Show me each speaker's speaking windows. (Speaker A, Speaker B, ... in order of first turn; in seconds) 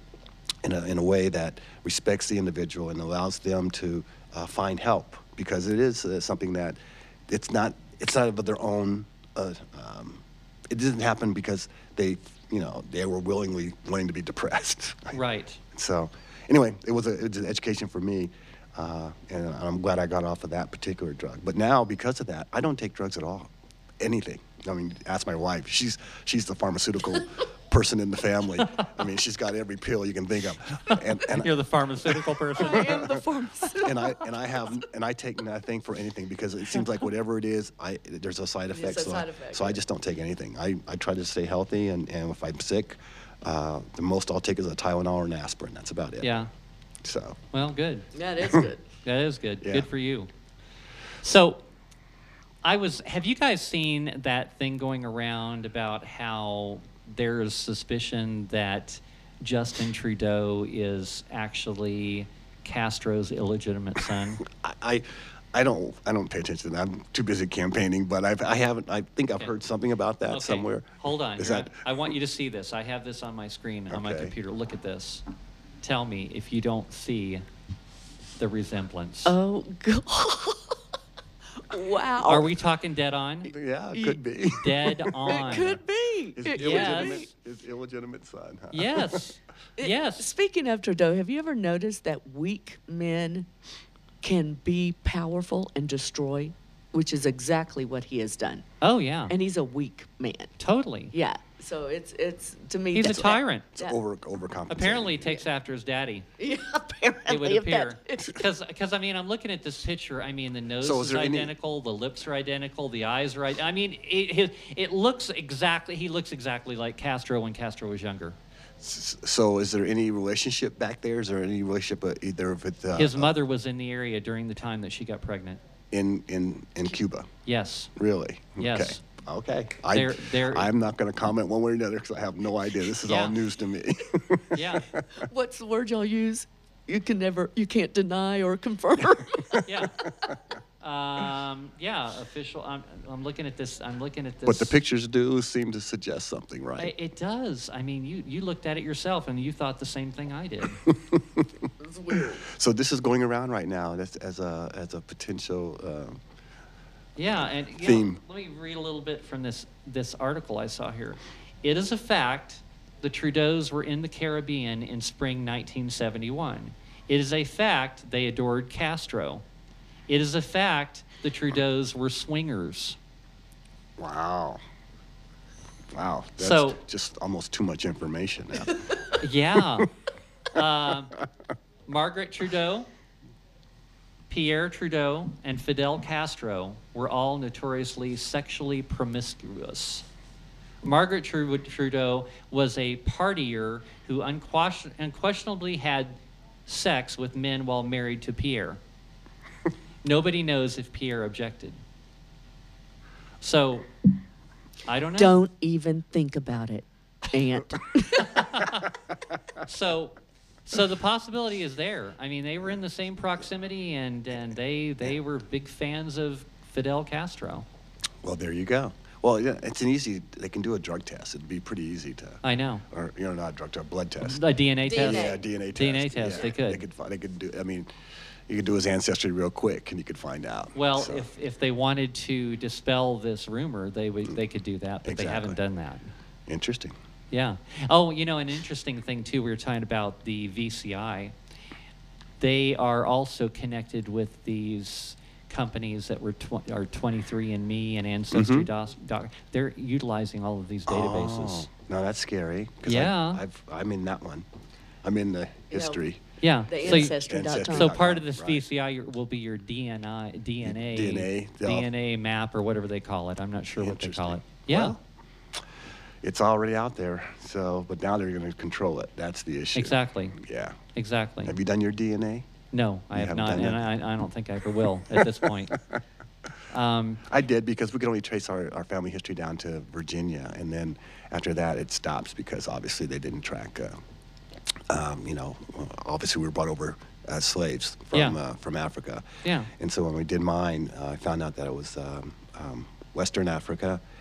Speaker A: 0.6-6.8, 7.3-15.2, 15.7-31.5, 32.8-33.1, 33.8-46.3, 47.0-47.4, 49.6-49.9, 64.5-71.8, 73.9-74.3, 83.4-85.8, 86.3-89.2, 103.7-105.4, 110.8-111.5, 118.8-123.3, 125.9-127.3, 128.0-135.2, 144.4-146.9, 150.8-156.2, 157.8-158.2, 174.0-174.6, 175.9-179.8, 218.2-224.4, 225.0-227.9, 228.5-231.2, 235.0-235.6, 236.5-236.9, 248.3-248.7, 250.9-254.4, 255.0-256.2, 256.8-258.6, 260.6-261.9, 263.8-265.0, 266.2-270.8, 271.4-272.5, 273.1-273.9, 275.1-276.0, 277.3-284.0, 284.9-294.0
Speaker B: 15.1-15.6, 30.9-33.1, 46.2-46.5, 47.5-48.1, 49.0-50.3, 51.2-51.6, 52.6-64.4, 70.3-75.2, 75.8-77.4, 78.4-79.3, 82.2-83.5, 84.6-85.8, 86.5-87.2, 88.7-90.3, 98.8-99.3, 100.6-101.1, 102.9-103.7, 104.7-106.3, 107.3-118.3, 122.9-125.6, 127.5-127.9, 128.6-129.0, 129.9-130.7, 133.0-133.4, 134.5-135.0, 139.7-140.1, 140.8-144.7, 146.8-150.8, 157.2-169.4, 170.1-173.0, 176.4-176.8, 179.2-179.9, 180.5-181.2, 181.9-182.9, 184.3-190.0, 190.8-196.1, 196.7-198.8, 200.0-201.8, 203.4-203.9, 204.9-205.4, 208.2-208.9, 209.6-217.7, 222.4-222.8, 224.2-226.8, 230.7-236.1, 237.3-241.3, 242.4-251.7, 252.8-253.4, 256.4-264.9, 269.7-270.4, 270.9-271.6, 272.7-275.8, 276.7-277.3, 289.4-289.7
Speaker C: 32.5-34.2, 38.7-39.8, 48.1-48.8, 79.2-80.8, 81.7-82.5, 85.3-87.3, 89.8-93.5, 94.2-98.7, 99.3-100.5, 101.1-104.0, 106.4-108.4, 135.2-139.8, 151.8-152.4, 205.2-208.6, 224.8-225.4, 255.7-256.0, 256.7-257.9